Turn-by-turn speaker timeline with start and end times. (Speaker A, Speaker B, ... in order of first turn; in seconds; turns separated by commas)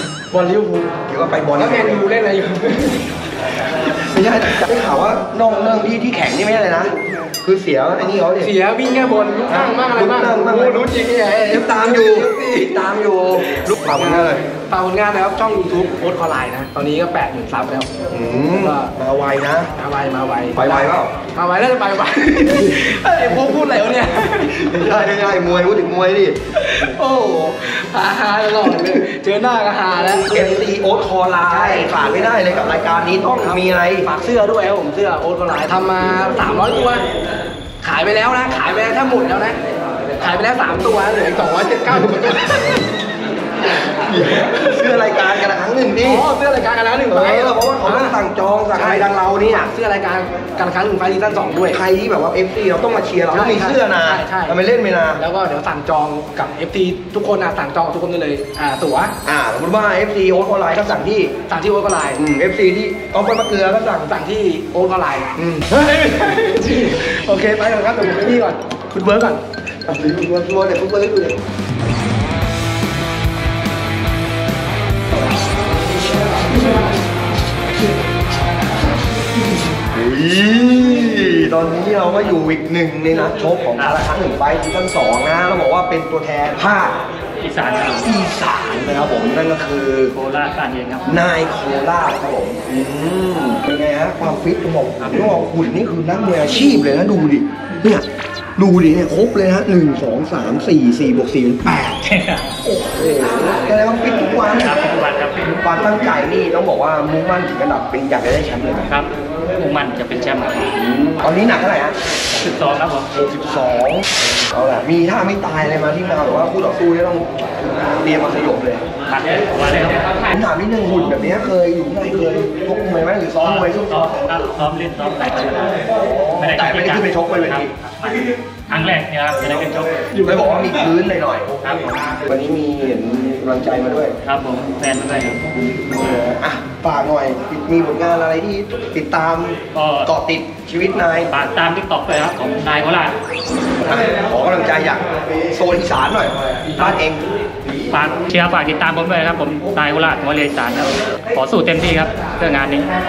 Speaker A: 0.2-1.0, Speaker B: 1.1-2.1, Speaker A: 1.6-3.9, Speaker B: 3.9-6.9, Speaker B: 7.4-8.5, Speaker A: 8.4-17.9, Speaker B: 9.5-14.4, Speaker B: 18.1-19.7, Speaker A: 18.5-18.9, Speaker A: 19.8-25.1, Speaker B: 20.5-21.1, Speaker B: 24.6-26.4, Speaker A: 26.6-30.7, Speaker B: 30.3-34.1, Speaker A: 31.5-32.1, Speaker A: 33.4-37.1, Speaker A: 37.8-39.6, Speaker A: 40.2-42.8, Speaker B: 41.9-42.3, Speaker B: 44.1-46.2, Speaker A: 44.2-45.0, Speaker A: 46.0-48.2, Speaker B: 47.1-49.7, Speaker A: 48.7-51.8, Speaker B: 51.7-55.2, Speaker A: 53.3-54.6, Speaker A: 55.2-59.1, Speaker B: 59.2-61.4, Speaker A: 61.5-62.2, Speaker B: 62.2-64.0, Speaker A: 63.8-69.4, Speaker B: 65.4-65.7, Speaker B: 69.9-71.4, Speaker B: 79.9-87.0, Speaker C: 87.4-88.1, Speaker B: 87.9-90.1, Speaker C: 90.1-91.2, Speaker B: 91.0-98.0, Speaker C: 95.0-95.3, Speaker B: 98.6-102.0, Speaker C: 102.0-102.4, Speaker B: 102.6-108.9, Speaker C: 104.5-105.6, Speaker C: 108.9-110.7, Speaker B: 110.8-112.0, Speaker C: 112.3-113.1, Speaker B: 113.1-118.8, Speaker C: 119.0-120.3, Speaker B: 120.3-124.2, Speaker C: 123.6-125.9, Speaker B: 126.0-127.7, Speaker C: 126.4-130.1, Speaker B: 129.3-134.2, Speaker C: 131.6-132.0, Speaker C: 134.2-135.5, Speaker B: 135.9-141.3, Speaker C: 139.7-140.1, Speaker C: 141.3-143.2, Speaker B: 143.8-147.3, Speaker C: 147.9-152.9